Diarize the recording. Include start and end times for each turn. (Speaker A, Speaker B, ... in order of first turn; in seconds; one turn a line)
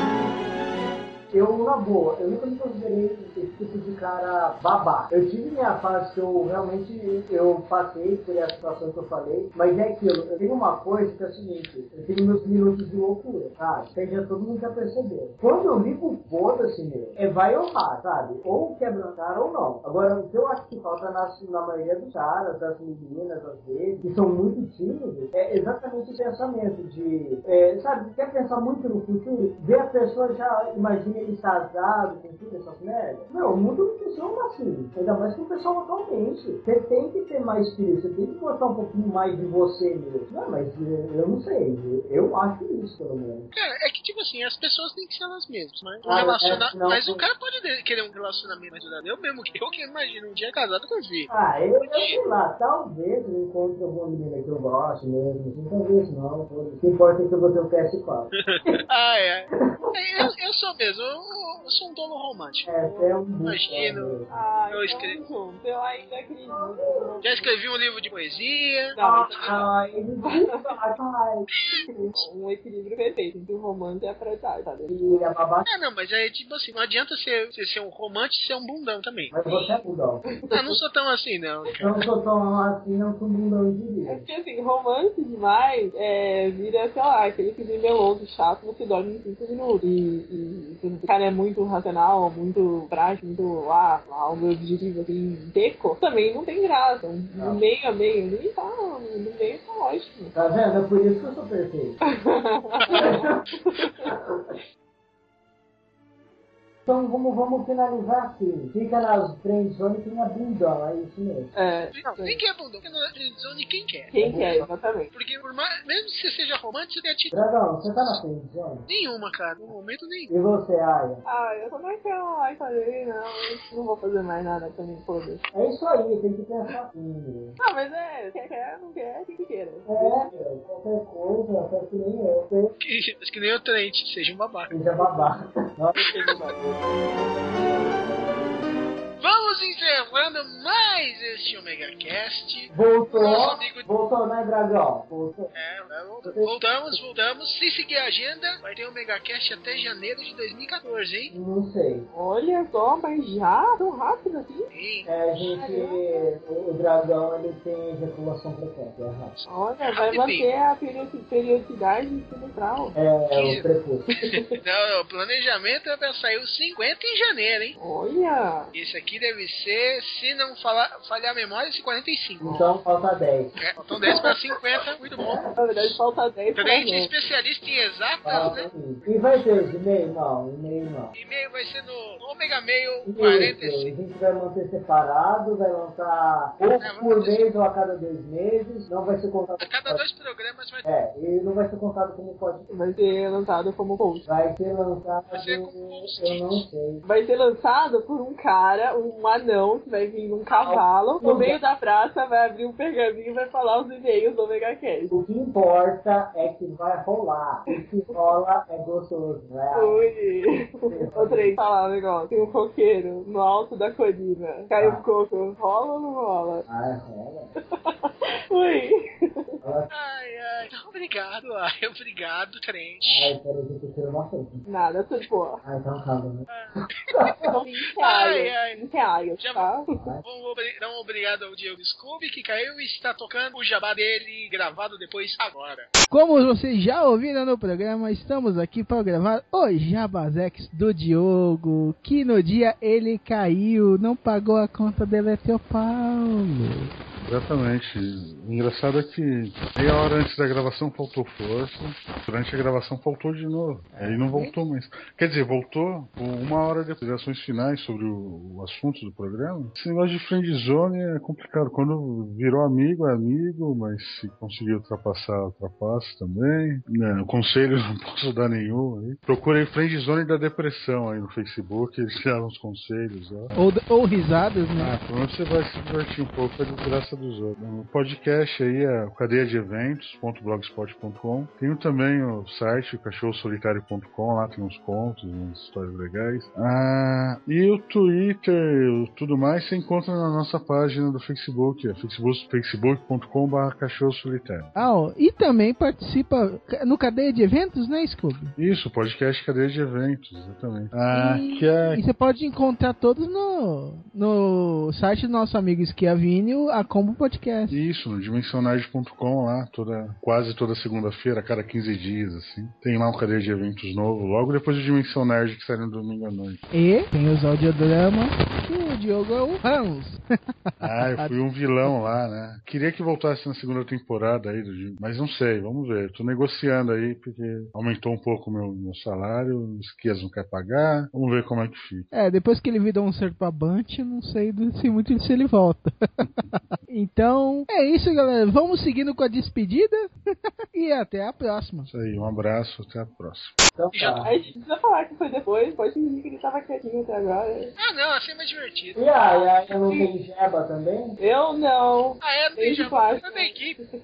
Speaker A: 1.3-43.5
Speaker B: 43.5-51.3
Speaker A: 46.0-47.2
Speaker A: 51.3-58.8
Speaker B: 51.9-52.2
Speaker B: 58.4-62.9
Speaker A: 62.6-64.3
Speaker B: 63.4-64.1
Speaker C: 64.3-67.5
Speaker B: 64.7-65.2
Speaker A: 66.5-67.2
Speaker B: 67.2-69.7
Speaker C: 69.0-69.6
Speaker A: 69.0-72.1
Speaker C: 72.0-75.2
Speaker A: 74.9-75.7
Speaker B: 75.7-79.3
Speaker A: 79.3-80.2
Speaker C: 79.5-79.8
Speaker C: 80.4-80.8
Speaker B: 80.5-82.0
Speaker A: 81.8-84.2
Speaker C: 84.0-100.3
Speaker A: 97.3-97.6
Speaker A: 100.3-102.0
Speaker C: 102.2-104.1
Speaker A: 102.9-103.5
Speaker A: 106.8-111.5
Speaker C: 111.5-112.4
Speaker B: 111.9-114.1
Speaker C: 114.1-115.1
Speaker A: 114.2-114.7
Speaker B: 115.1-117.4
Speaker A: 117.3-118.9
Speaker B: 118.9-120.3
Speaker A: 120.3-121.2
Speaker C: 121.2-125.4
Speaker A: 125.5-127.5
Speaker C: 127.6-130.3
Speaker A: 129.9-132.7
Speaker B: 132.8-134.7
Speaker A: 134.7-136.3
Speaker C: 136.0-136.8
Speaker B: 136.1-136.4
Speaker B: 139.2-143.8
Speaker A: 142.7-145.5
Speaker B: 145.5-151.3
Speaker A: 146.2-147.0
Speaker A: 151.3-152.1
Speaker C: 152.1-154.7
Speaker B: 154.7-155.1
Speaker A: 155.1-159.3
Speaker C: 155.5-156.3
Speaker C: 159.5-163.0
Speaker B: 159.8-160.5
Speaker A: 162.9-164.1
Speaker B: 163.3-163.6
Speaker C: 164.2-164.4
Speaker B: 164.6-167.8
Speaker C: 167.8-168.7
Speaker B: 168.7-172.7
Speaker A: 172.4-173.5
Speaker B: 173.6-175.4
Speaker A: 175.2-175.5
Speaker C: 175.5-177.1
Speaker B: 176.6-179.6
Speaker A: 178.2-181.1
Speaker B: 181.1-183.9
Speaker A: 183.0-190.0
Speaker B: 186.8-187.5
Speaker B: 189.6-190.9
Speaker A: 190.8-192.6
Speaker C: 192.7-194.2
Speaker A: 194.2-197.0
Speaker B: 195.3-196.6
Speaker C: 197.0-205.1
Speaker A: 200.6-201.6
Speaker A: 205.1-210.1
Speaker C: 209.7-216.6
Speaker A: 210.8-211.6
Speaker A: 214.8-215.0
Speaker A: 216.7-217.5
Speaker C: 217.8-219.5
Speaker A: 219.6-219.9
Speaker B: 219.9-223.3
Speaker A: 223.0-224.6
Speaker C: 224.7-225.6
Speaker A: 225.6-226.5
Speaker B: 226.5-228.8
Speaker A: 227.1-227.5
Speaker C: 227.5-229.9
Speaker B: 229.4-229.7
Speaker A: 229.9-230.2
Speaker B: 230.2-235.9
Speaker D: 236.1-246.9
Speaker E: 247.2-273.5
Speaker D: 253.9-254.5
Speaker D: 273.5-274.9
Speaker E: 274.8-294.7
Speaker D: 294.7-298.5
Speaker E: 298.6-302.0
Speaker D: 301.1-307.8
Speaker E: 307.7-316.6
Speaker D: 316.7-320.2
Speaker D: 320.8-321.3
Speaker E: 320.8-332.1
Speaker D: 332.1-340.1
Speaker D: 340.7-341.9
Speaker E: 341.9-343.5
Speaker A: 343.8-344.3
Speaker B: 343.9-344.2
Speaker C: 344.2-347.7
Speaker B: 347.8-349.4
Speaker A: 349.0-351.2
Speaker C: 351.2-353.6
Speaker B: 352.2-353.8